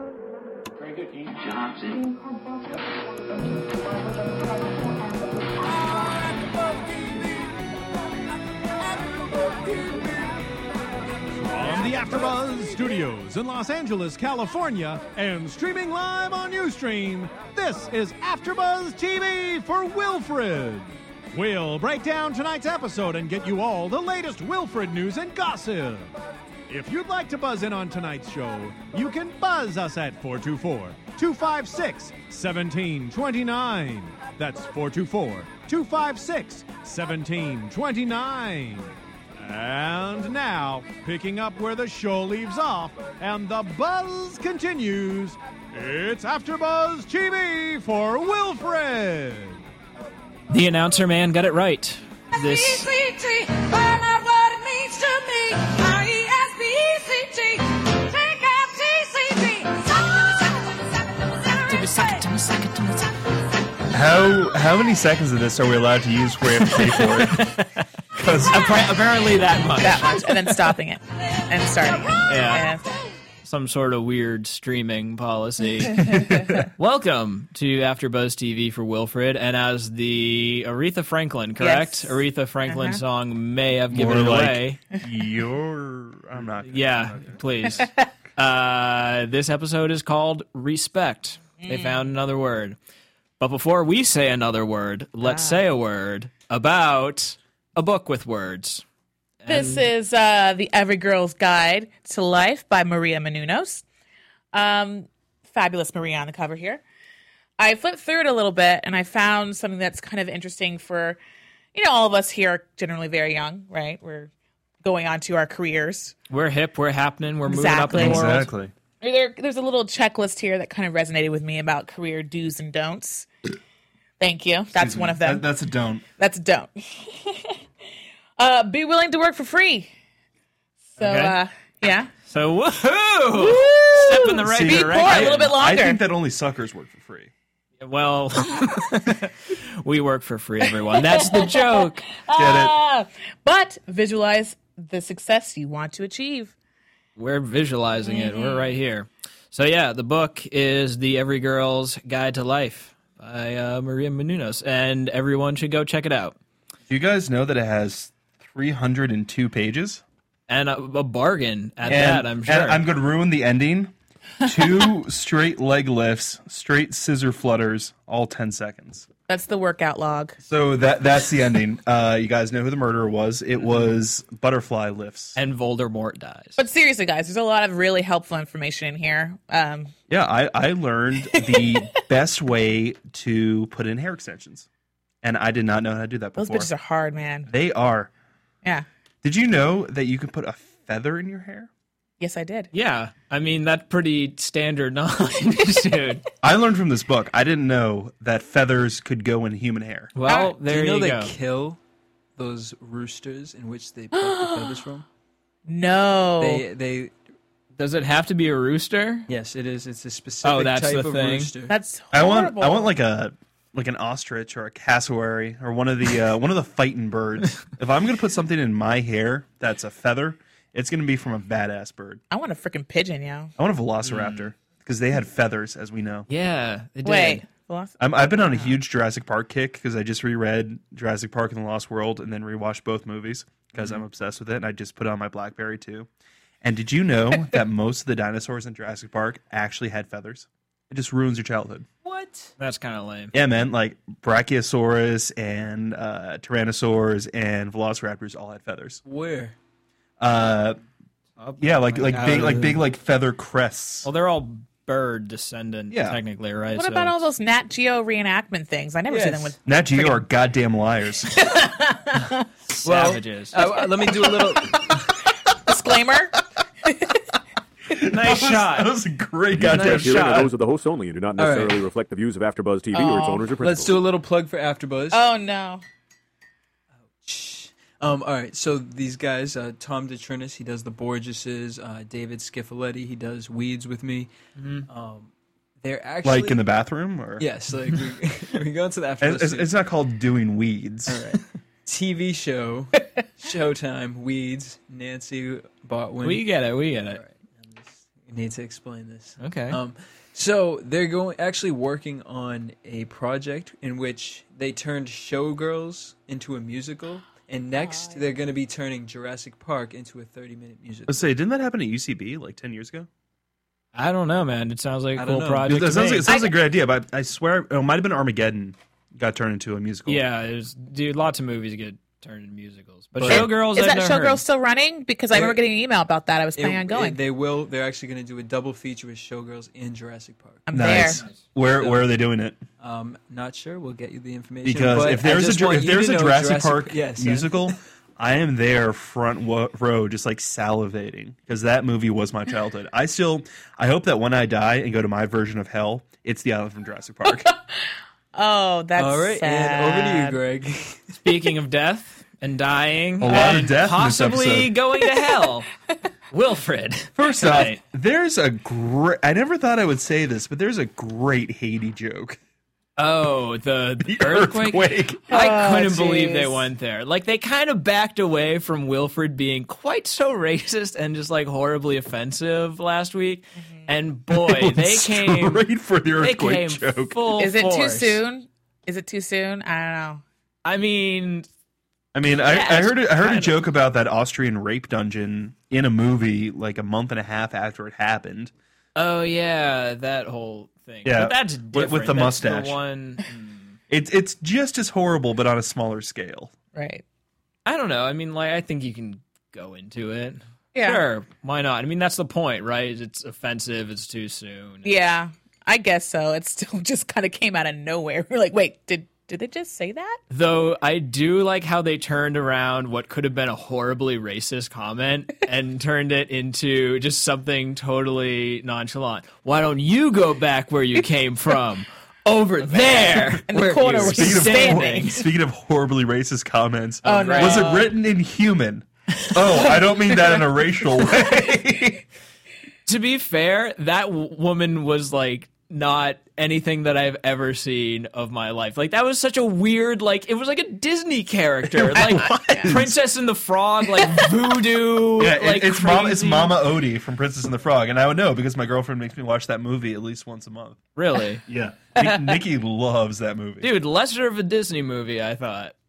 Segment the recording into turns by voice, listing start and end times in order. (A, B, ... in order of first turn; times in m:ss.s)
0:01.2-0:02.4 A
0:05.1-0:06.2 A
0:11.4-0:26.1 B
0:26.7-0:49.6 B
0:50.5-0:52.9 C
0:52.4-1:02.3 A
1:01.7-1:03.1 C
1:03.9-1:07.6 D
1:06.7-1:07.8 C
1:08.2-1:09.0 D
1:08.5-1:10.6 C
1:09.8-1:12.9 E
1:12.3-1:12.7 C
1:13.4-1:16.1 C
1:15.9-1:16.7 D
1:16.8-1:24.8 C
1:21.6-1:23.0 E
1:23.9-1:27.7 D
1:26.7-1:32.8 C
1:31.6-1:32.1 E
1:33.4-1:38.8 C
1:35.2-1:35.6 E
1:39.4-1:39.9 C
1:39.5-1:43.8 E
1:44.5-1:46.8 E
1:47.6-1:51.2 E
1:51.7-1:54.3 E
1:54.8-1:56.2 E
1:56.3-1:58.5 C
1:57.4-1:58.4 E
1:57.9-1:58.7 D
1:59.0-2:03.3 E
2:04.2-2:05.5 E
2:04.8-2:06.0 D
2:06.2-2:07.6 E
2:08.4-2:09.9 E
2:11.0-2:12.1 E
2:11.0-2:11.4 C
2:12.2-2:15.5 C
2:13.3-2:16.0 E
2:14.2-2:17.3 D
2:17.8-2:22.0 C
2:20.8-2:26.5 E
2:22.3-2:22.8 D
2:27.2-2:36.4 C
2:28.0-2:28.7 E
2:36.9-2:40.0 D
2:40.5-2:42.8 C
2:41.9-2:49.1 D
2:49.3-2:50.4 E
2:50.4-2:55.4 D
2:55.4-2:56.6 C
2:56.6-2:59.9 E
3:00.1-3:04.7 D
3:01.3-3:01.8 E
3:05.2-3:06.7 D
3:06.4-3:07.5 E
3:07.5-3:08.1 D
3:09.2-3:11.7 D
3:12.2-3:12.7 E
3:12.7-3:16.2 C
3:16.4-3:20.1 D
3:20.2-3:21.3 C
3:20.3-3:20.5 E
3:20.5-3:21.8 F
3:22.4-3:25.1 F
3:24.1-3:24.8 E
3:25.7-3:26.6 E
3:26.4-3:27.1 F
3:27.8-3:29.3 C
3:29.3-3:31.8 F
3:30.4-3:31.5 C
3:31.7-3:32.9 E
3:32.1-3:42.2 D
3:42.3-3:43.5 E
3:43.6-3:46.3 D
3:44.0-3:44.5 C
3:46.3-3:47.4 C
3:47.0-3:48.8 E
3:48.0-3:56.1 D
3:56.6-4:01.9 D
4:02.0-4:02.5 F
4:02.6-4:03.3 C
4:03.3-4:09.0 D
4:09.0-4:09.6 F
4:10.2-4:10.8 D
4:11.4-4:12.8 C
4:11.6-4:14.1 D
4:12.1-4:12.8 F
4:14.0-4:17.2 C
4:15.9-4:16.2 D
4:16.7-4:20.2 E
4:19.1-4:19.6 F
4:19.6-4:21.3 D
4:21.4-4:22.4 E
4:22.8-4:23.6 C
4:22.8-4:25.1 F
4:24.1-4:25.0 E
4:25.5-4:27.2 E
4:27.9-4:30.5 D
4:28.0-4:29.0 C
4:29.6-4:34.0 G
4:29.6-4:30.5 C
4:31.4-4:31.8 F
4:32.9-4:33.5 E
4:33.6-4:35.2 F
4:35.1-4:35.8 E
4:37.2-4:44.3 F
4:44.6-4:44.8 C
4:44.8-4:46.6 F
4:46.2-4:47.5 D
4:47.4-4:49.7 F
4:49.2-4:51.2 D
4:51.1-4:56.5 F
4:56.2-4:57.2 C
4:57.1-5:11.3 F
4:59.4-4:59.8 C
5:07.8-5:08.4 E
5:11.1-5:13.1 D
5:13.9-5:16.3 C
5:15.2-5:16.0 F
5:15.7-5:20.2 D
5:16.3-5:16.6 E
5:20.1-5:24.4 C
5:23.2-5:23.5 D
5:23.3-5:27.2 E
5:25.3-5:25.6 F
5:26.6-5:31.0 F
5:30.7-5:31.2 E
5:30.7-5:32.6 D
5:31.6-5:32.1 F
5:32.8-5:37.8 F
5:34.6-5:47.5 D
5:48.3-5:50.4 E
5:49.0-5:51.1 F
5:51.2-5:55.7 C
5:53.2-5:54.7 D
5:56.3-5:57.8 C
5:57.2-6:02.4 D
6:03.0-6:15.6 C
6:04.0-6:05.3 D
6:05.3-6:06.7 E
6:14.3-6:17.2 D
6:16.2-6:18.2 C
6:17.4-6:20.2 E
6:20.6-6:21.5 C
6:22.1-6:28.5 D
6:22.4-6:23.6 C
6:29.0-6:33.8 C
6:31.0-6:32.8 D
6:33.9-6:36.5 D
6:36.7-6:37.0 E
6:37.6-6:44.9 C
6:40.7-6:41.1 E
6:44.8-6:50.2 E
6:50.3-7:05.2 C
7:02.7-7:05.2 E
7:03.8-7:12.0 D
7:07.0-7:07.9 E
7:07.0-7:07.9 C
7:12.9-7:26.6 C
7:21.7-7:23.0 D
7:25.2-7:30.8 D
7:31.0-7:31.4 C
7:31.5-7:33.7 D
7:33.6-7:35.7 C